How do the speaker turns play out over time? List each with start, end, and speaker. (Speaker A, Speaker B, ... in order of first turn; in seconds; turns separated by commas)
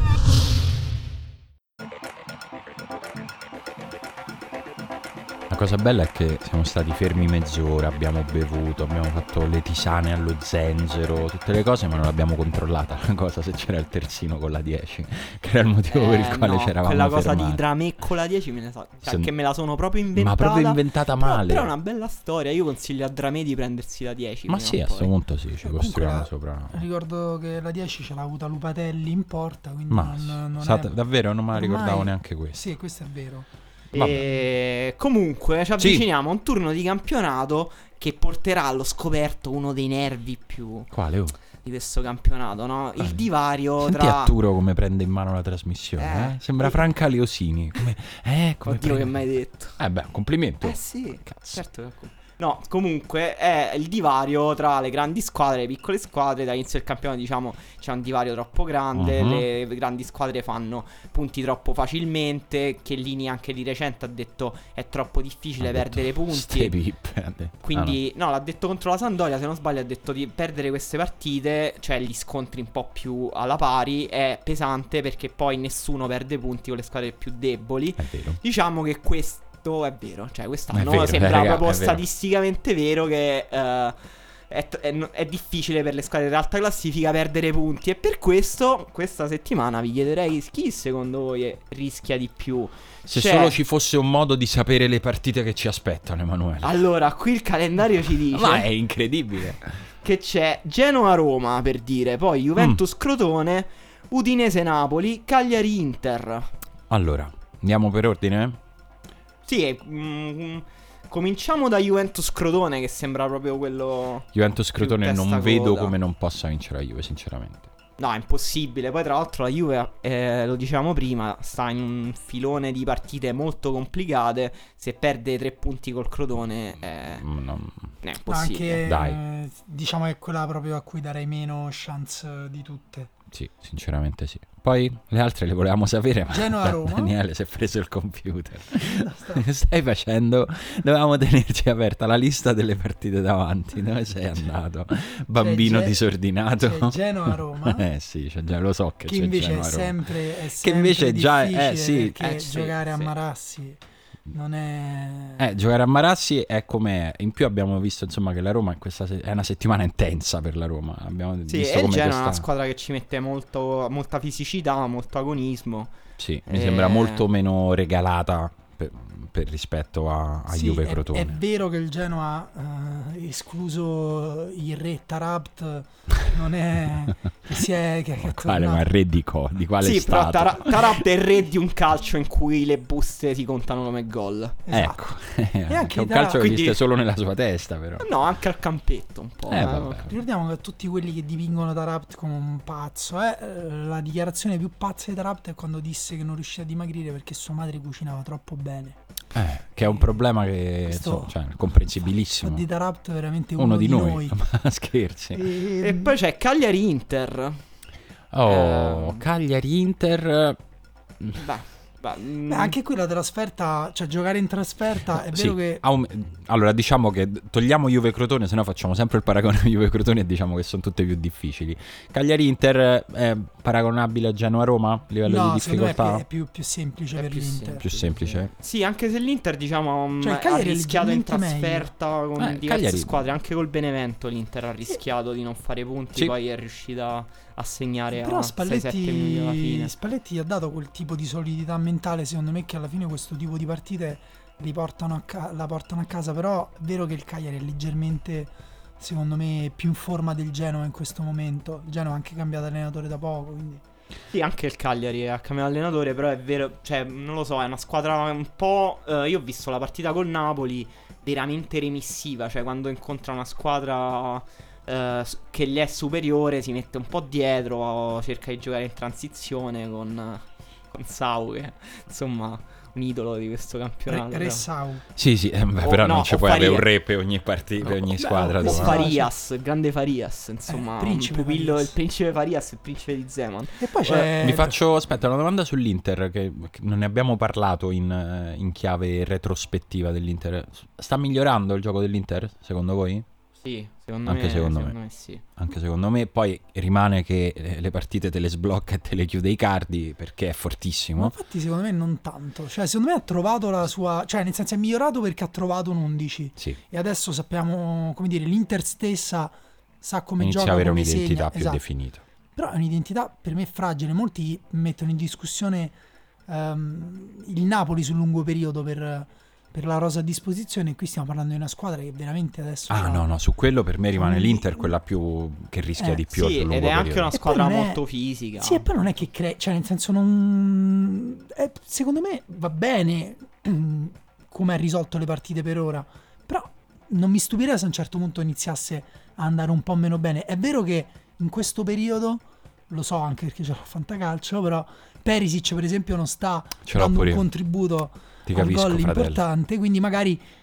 Speaker A: 5.5-17.6, Speaker B: 15.9-25.1, Speaker A: 19.1-19.3, Speaker A: 20.1-21.7, Speaker A: 24.5-26.8, Speaker C: 25.6-30.9, Speaker A: 29.9-32.6, Speaker C: 31.5-33.5, Speaker B: 33.9-40.9, Speaker A: 33.9-34.2, Speaker A: 35.8-36.0, Speaker A: 40.9-41.4, Speaker B: 41.6-44.3, Speaker A: 43.8-49.1, Speaker B: 46.0-46.8, Speaker B: 48.6-49.8, Speaker A: 49.8-51.6, Speaker B: 50.6-66.8, Speaker A: 58.9-59.5, Speaker A: 65.6-68.0, Speaker B: 67.6-84.0, Speaker A: 78.0-78.4, Speaker A: 80.7-82.0, Speaker B: 84.5-93.6, Speaker A: 93.1-96.8, Speaker B: 96.6-98.7, Speaker A: 98.3-99.9, Speaker B: 100.0-106.5, Speaker A: 106.9-108.6, Speaker B: 109.5-115.9, Speaker A: 114.3-117.7, Speaker B: 118.0-127.3, Speaker A: 127.1-127.9, Speaker B: 128.0-128.8, Speaker C: 128.3-133.1, Speaker A: 128.8-129.2, Speaker A: 133.3-152.4, Speaker C: 136.3-137.1, Speaker C: 138.8-139.4, Speaker C: 145.3-146.0, Speaker C: 146.6-147.8, Speaker C: 149.1-153.8, Speaker B: 152.3-153.1, Speaker C: 154.3-155.4, Speaker A: 155.4-162.4, Speaker B: 161.5-165.9, Speaker A: 166.2-171.4, Speaker B: 166.5-167.2, Speaker C: 170.5-178.8, Speaker A: 178.2-181.1, Speaker B: 179.8-184.6, Speaker C: 184.7-185.1, Speaker A: 184.7-188.1, Speaker C: 185.7-186.5, Speaker B: 186.3-186.8, Speaker B: 188.0-190.2, Speaker A: 189.5-190.1, Speaker C: 190.1-199.0, Speaker A: 199.3-202.7, Speaker C: 200.9-201.3, Speaker C: 202.4-204.3, Speaker A: 203.6-205.4, Speaker C: 205.3-206.1, Speaker B: 205.8-207.6, Speaker A: 208.3-210.6, Speaker B: 208.4-209.2, Speaker B: 211.4-212.8, Speaker C: 212.5-215.8, Speaker A: 215.3-226.2, Speaker C: 225.2-227.9, Speaker B: 227.2-239.9, Speaker A: 227.8-228.5, Speaker C: 230.2-231.9, Speaker A: 232.4-233.2, Speaker C: 238.1-253.8, Speaker B: 254.3-274.7, Speaker C: 274.1-275.0, Speaker A: 275.1-279.1, Speaker B: 275.8-276.9, Speaker C: 278.0-279.3, Speaker B: 278.6-283.9, Speaker C: 280.7-281.9, Speaker C: 283.8-284.8, Speaker A: 284.1-293.2, Speaker B: 293.6-295.4, Speaker A: 294.2-294.9, Speaker A: 295.6-301.3, Speaker C: 301.1-311.8, Speaker A: 310.4-312.2, Speaker C: 312.5-315.9, Speaker C: 316.5-323.3, Speaker A: 322.9-327.3, Speaker C: 324.1-324.9, Speaker B: 326.3-329.0, Speaker C: 327.3-328.0, Speaker C: 328.6-350.4, Speaker A: 346.8-347.4, Speaker A: 348.4-349.4